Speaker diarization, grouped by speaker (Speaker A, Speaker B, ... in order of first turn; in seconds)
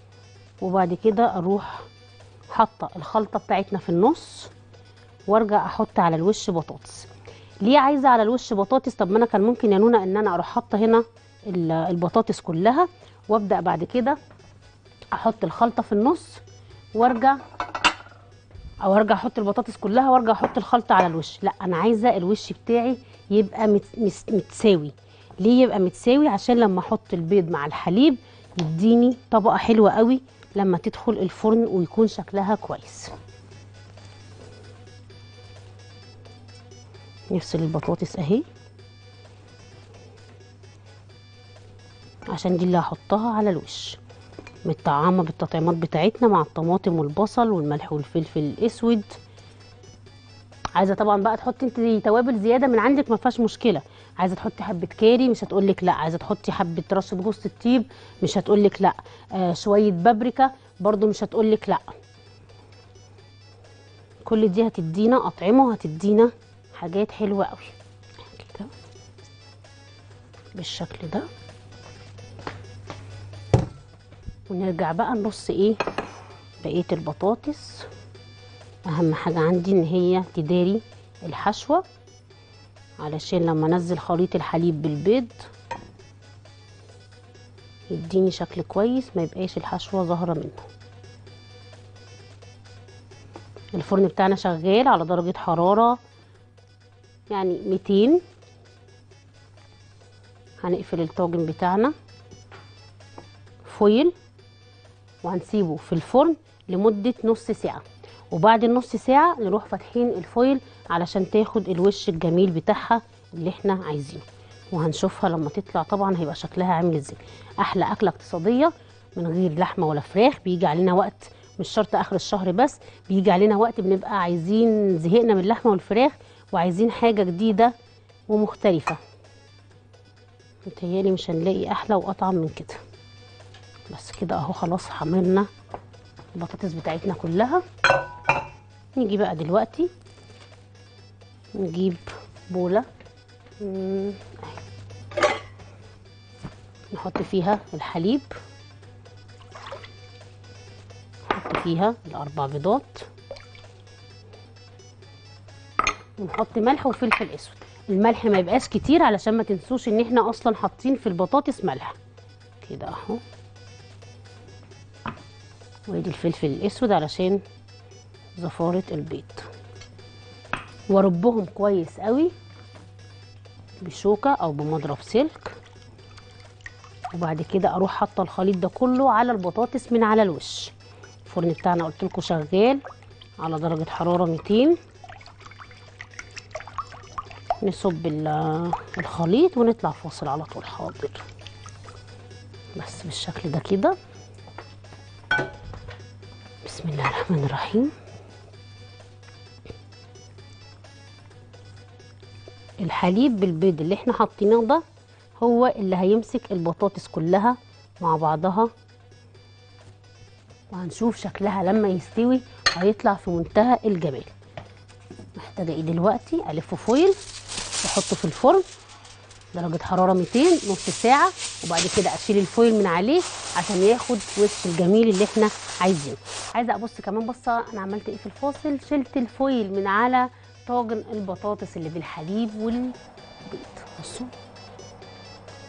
Speaker A: 0.6-1.8, 2.5-4.5, 5.3-7.1, 7.6-14.2, 15.1-16.4, 16.9-17.4, 18.8-33.1, 37.3-38.4, 42.3-44.0, 44.6-49.1, 50.8-61.9, 64.2-68.7, 70.5-71.3, 74.5-75.8, 76.6-77.9, 78.8-81.8, 83.0-85.4, 87.9-90.7, 93.7-96.0, 97.3-98.2, 100.6-101.9, 103.6-104.1, 105.2-127.7, 128.3-129.0, 130.6-132.8, 133.9-135.5, 136.3-137.6, 138.9-139.9, 141.6-142.8, 143.6-144.6, 146.9-148.3, 151.3-153.1, 156.2-161.9, 162.6-163.2, 165.9-167.4, 168.4-169.5, 170.9-172.3, 173.8-175.5, 177.1-180.7, 181.2-182.8, 183.4-184.8, 187.6-191.2, 192.8-193.9, 196.6-197.9, 202.8-204.8, 205.4-208.7, 210.7-214.3, 215.4-217.2, 217.8-218.6, 219.5-232.9, 233.5-234.3